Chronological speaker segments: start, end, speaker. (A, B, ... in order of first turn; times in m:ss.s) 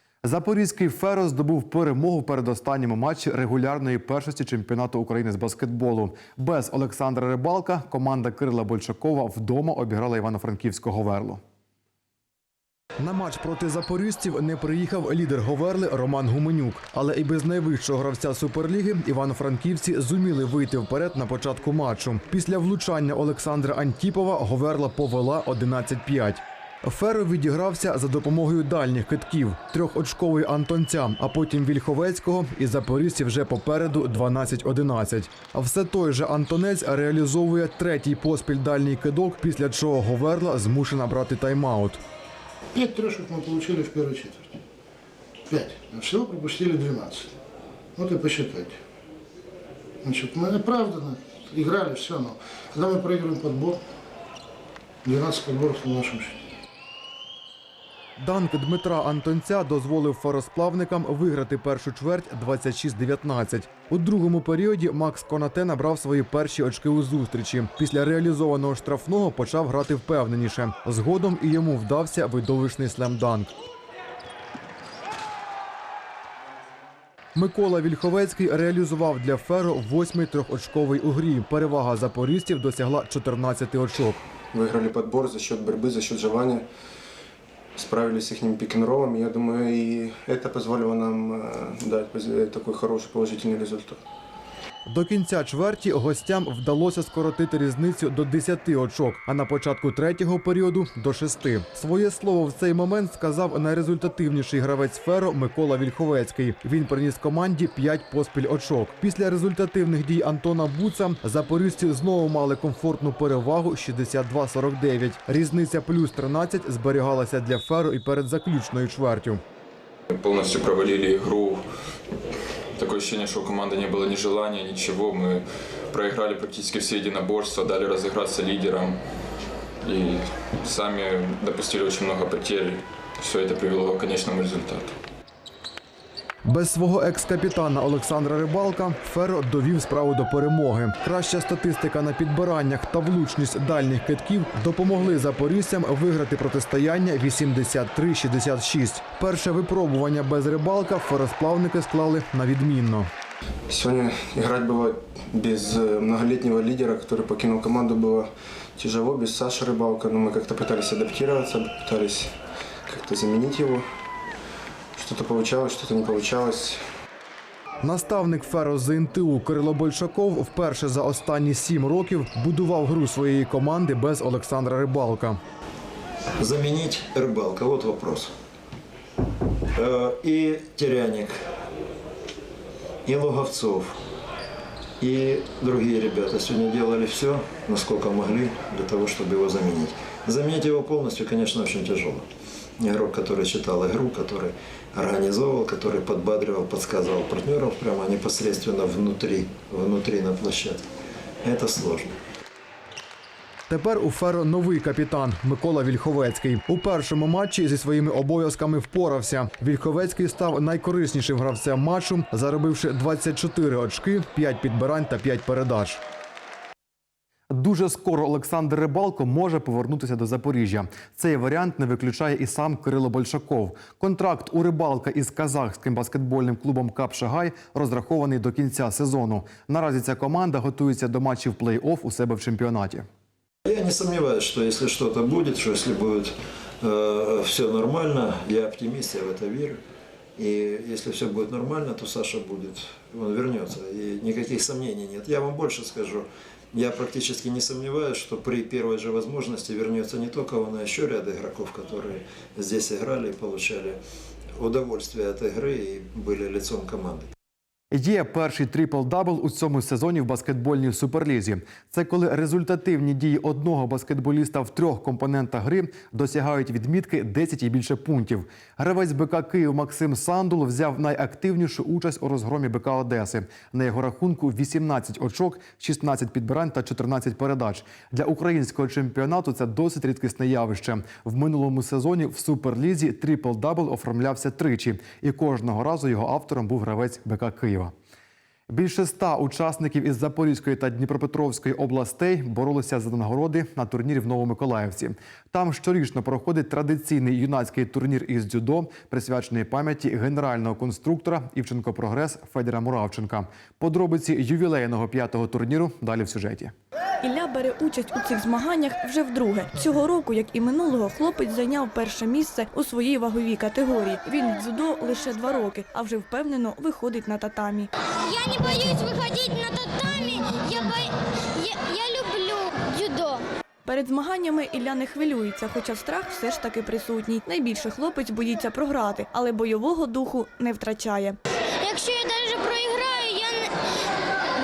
0:00.2-0:11.4 A
0:13.0-0:42.0 A
0:42.7-0:44.6 B
0:45.5-0:47.3 B
0:48.0-0:48.8 B
0:50.0-0:53.8 B
0:55.0-0:56.4 B
0:58.2-1:13.5 A
1:17.4-1:24.2 A
1:24.5-1:26.6 C
1:27.8-1:34.0 C
1:34.8-1:59.4 A
2:00.1-2:01.6 D
2:02.8-2:09.0 D
2:09.8-2:15.0 D
2:16.5-2:33.1 A
2:33.7-2:42.3 C
2:42.9-2:43.9 C
2:45.0-2:46.8 C
2:47.8-2:55.4 A
2:56.4-2:58.3 E
2:59.8-3:01.4 E
3:03.1-3:04.0 E
3:05.0-3:12.3 E
3:12.8-3:20.8 E
3:21.4-3:22.2 E
3:23.7-3:36.0 A
3:37.5-3:53.1 A
3:53.7-3:59.8 E
4:00.4-4:14.0 E
4:14.6-4:17.3 E
4:17.9-4:47.9 A
4:48.7-5:06.7 A
5:07.2-5:17.9 F
5:18.2-5:23.4 G
5:23.8-5:31.4 F
5:31.8-5:33.7 G